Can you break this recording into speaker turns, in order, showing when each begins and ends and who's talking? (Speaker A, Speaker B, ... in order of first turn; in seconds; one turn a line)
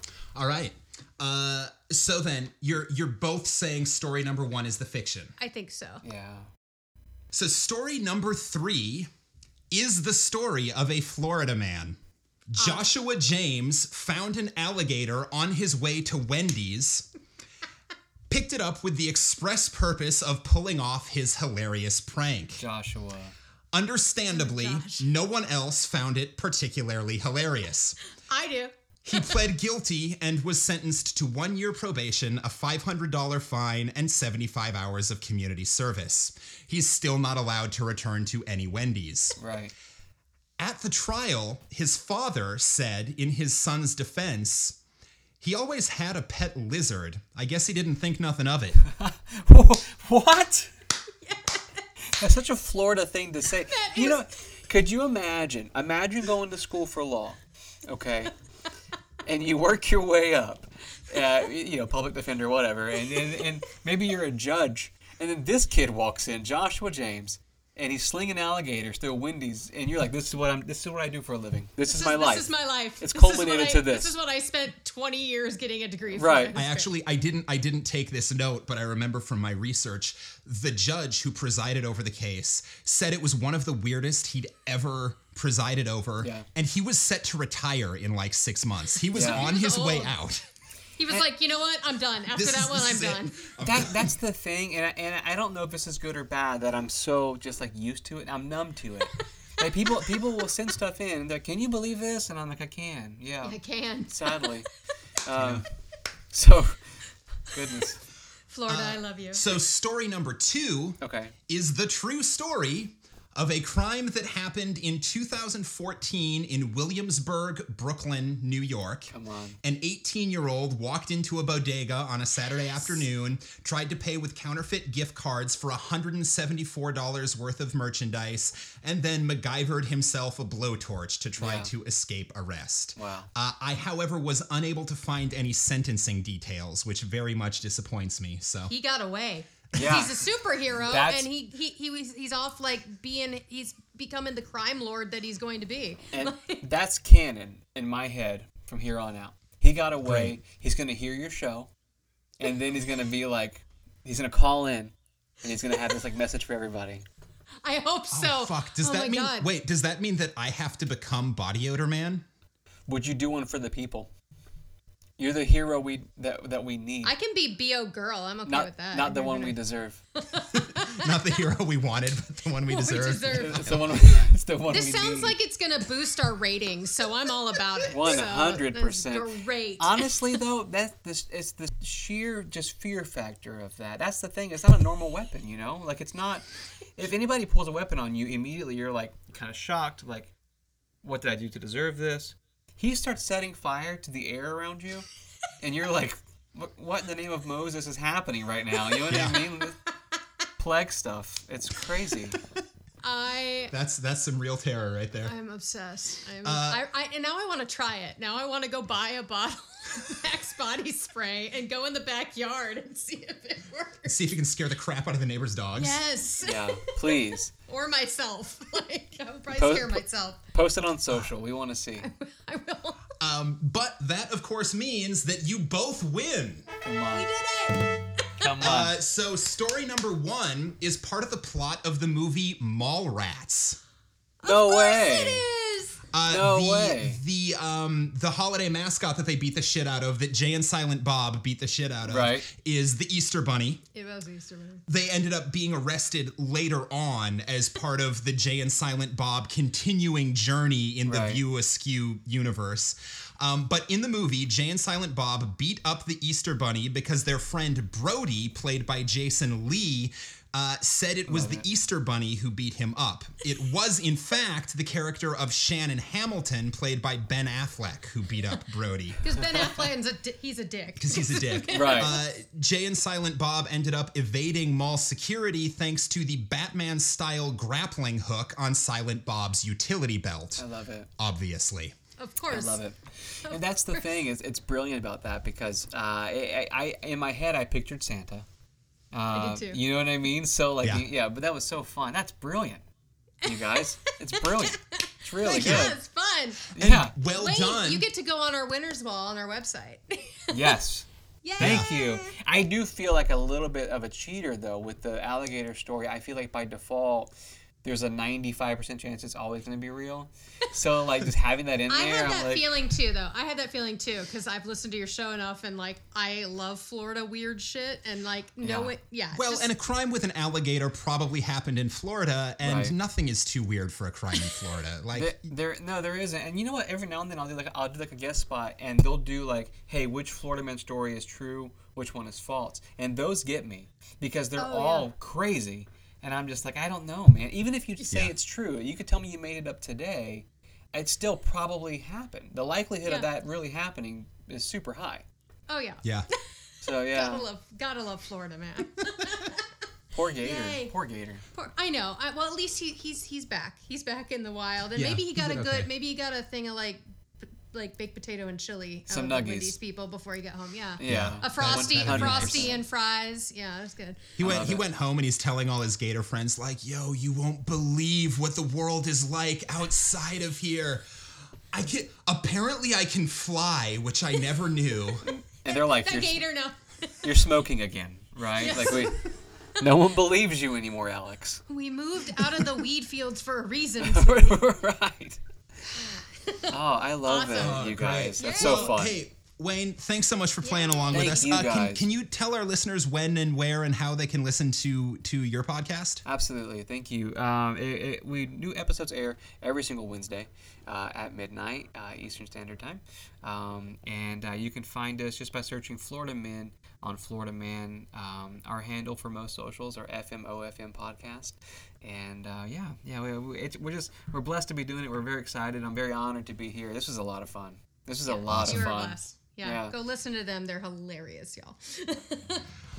Speaker A: 0.3-5.3
Speaker B: 5.4-6.0
Speaker C: 6.0-6.5
Speaker A: 7.3-9.1
Speaker A: 9.7-12.0
Speaker A: 12.5-17.1
Speaker B: 12.6-12.9
Speaker A: 18.3-22.6
Speaker C: 22.6-23.3
Speaker A: 23.7-28.0
Speaker B: 24.3-25.1
Speaker B: 28.3-28.7
Speaker A: 29.0-39.4
Speaker C: 39.4-39.7
Speaker A: 40.6-44.8
Speaker A: 45.4-48.8
Speaker C: 49.0-50.7
Speaker B: 51.2-51.8
Speaker C: 52.2-58.3
Speaker B: 53.7-54.2
Speaker C: 59.2-74.1
Speaker B: 71.8-76.9
Speaker C: 76.1-76.6
Speaker A: 76.5-90.4
Speaker C: 89.1-89.5
Speaker B: 89.1-90.1
Speaker B: 91.0-93.3
Speaker A: 92.3-94.1
Speaker C: 93.6-103.6
Speaker B: 103.4-104.6
Speaker C: 104.1-104.7
Speaker C: 105.2-105.7
Speaker A: 105.3-105.7
Speaker C: 106.3-106.8
Speaker C: 107.5-108.0
Speaker B: 108.5-109.5
Speaker A: 108.7-119.1
Speaker C: 111.0-111.3
Speaker C: 119.1-119.6
Speaker A: 119.6-138.7
Speaker C: 131.4-131.7
Speaker C: 132.9-133.3
Speaker B: 138.7-146.6
Speaker C: 139.7-140.2
Speaker C: 140.9-141.3
Speaker C: 146.1-151.7
Speaker A: 150.0-150.4
Speaker C: 152.4-157.1
Speaker B: 157.6-159.5
Speaker A: 158.1-162.2
Speaker C: 162.9-164.1
Speaker C: 165.2-167.1
Speaker B: 167.0-169.6
Speaker C: 168.4-170.0
Speaker B: 170.2-171.2
Speaker A: 170.5-174.2
Speaker B: 172.6-180.2
Speaker C: 173.3-175.4
Speaker C: 177.9-186.4
Speaker C: 187.0-190.3
Speaker C: 191.0-195.1
Speaker C: 195.6-199.8
Speaker A: 199.1-199.5
Speaker C: 200.6-202.4
Speaker B: 203.0-203.7
Speaker A: 203.7-205.3
Speaker B: 205.2-214.2
Speaker A: 206.4-206.8
Speaker A: 214.1-216.0
Speaker B: 215.8-216.9
Speaker C: 216.4-217.5
Speaker B: 217.7-220.4
Speaker C: 219.5-220.0
Speaker C: 220.5-222.1
Speaker B: 222.0-223.0
Speaker A: 223.2-226.7
Speaker C: 226.8-227.3
Speaker B: 227.1-228.8
Speaker C: 228.4-229.0
Speaker A: 228.6-233.8
Speaker B: 234.4-236.0
Speaker C: 234.4-235.4
Speaker A: 236.1-243.8
Speaker C: 236.3-237.2
Speaker C: 242.0-242.5
Speaker B: 243.9-244.8
Speaker A: 244.9-269.2
Speaker C: 251.0-251.4
Speaker C: 261.3-261.6
Speaker B: 269.2-272.2
Speaker A: 271.0-280.6
Speaker C: 271.7-272.1
Speaker C: 280.6-281.1
Speaker A: 281.2-281.9
Speaker B: 282.2-282.8
Speaker C: 282.5-288.4
Speaker B: 283.4-284.1
Speaker C: 289.1-292.8
Speaker B: 289.3-289.8
Speaker B: 293.4-296.6
Speaker C: 293.4-295.9
Speaker A: 295.5-295.9
Speaker C: 296.7-297.1
Speaker A: 296.8-298.1
Speaker B: 297.3-300.8
Speaker C: 300.5-301.1
Speaker B: 301.4-302.3
Speaker C: 301.6-307.3
Speaker A: 301.6-301.9
Speaker C: 307.8-312.7
Speaker B: 311.9-319.7
Speaker C: 318.6-318.9
Speaker A: 319.3-325.3
Speaker C: 322.6-322.9
Speaker C: 325.1-345.2
Speaker B: 334.6-335.1
Speaker A: 338.1-338.3
Speaker B: 345.7-346.4
Speaker C: 346.8-347.4
Speaker B: 347.1-349.6
Speaker C: 350.1-351.4
Speaker B: 350.4-350.9
Speaker B: 351.5-357.0
Speaker A: 354.9-355.9
Speaker B: 357.7-364.3
Speaker C: 359.1-359.8
Speaker C: 361.0-362.8
Speaker A: 361.0-362.8
Speaker A: 364.4-371.0
Speaker C: 364.4-364.8
Speaker A: 371.7-375.2
Speaker C: 375.2-376.4
Speaker B: 375.6-377.1
Speaker C: 377.2-379.2
Speaker B: 378.5-379.2
Speaker C: 379.8-381.6
Speaker B: 381.7-384.6
Speaker C: 382.4-382.7
Speaker C: 384.0-385.4
Speaker B: 385.9-386.7
Speaker C: 386.7-389.2
Speaker B: 387.2-389.0
Speaker A: 387.5-396.2
Speaker B: 390.6-391.5
Speaker C: 391.1-392.0
Speaker C: 396.2-419.9
Speaker B: 418.2-422.6
Speaker A: 418.5-418.9